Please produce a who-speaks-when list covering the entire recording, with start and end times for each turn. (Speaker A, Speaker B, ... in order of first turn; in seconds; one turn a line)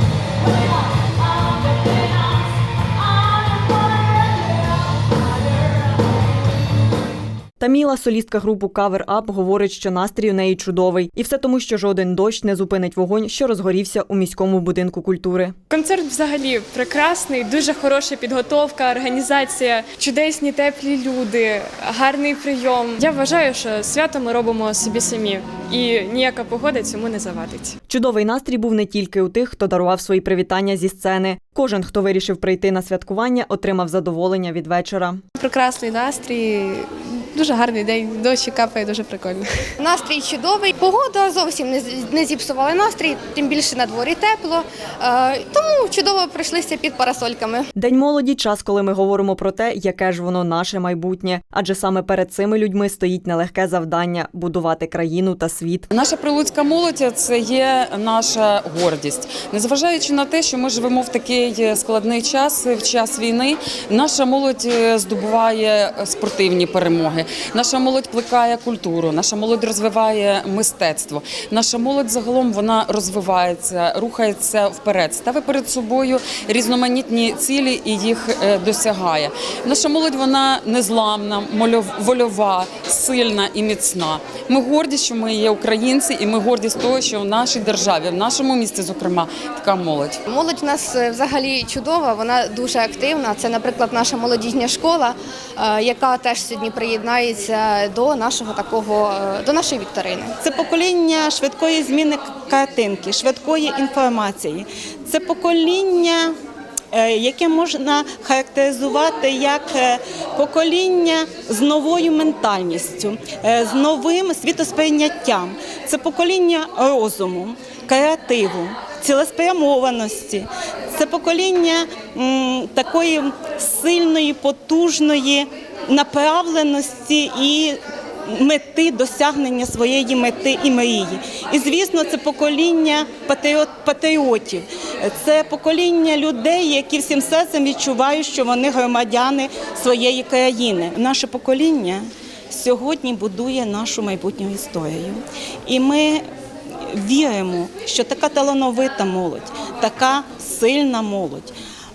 Speaker A: 7.6-15.6
Speaker B: 15.7-27.8
Speaker A: 27.9-35.2
Speaker C: 35.4-39.5
Speaker D: 39.8-47.7
Speaker A: 47.8-55.9
Speaker E: 55.9-90.2
Speaker D: 90.3-100.4
Speaker F: 100.4-106.3
Speaker F: 106.9-146.2
Speaker F: 146.9-151.5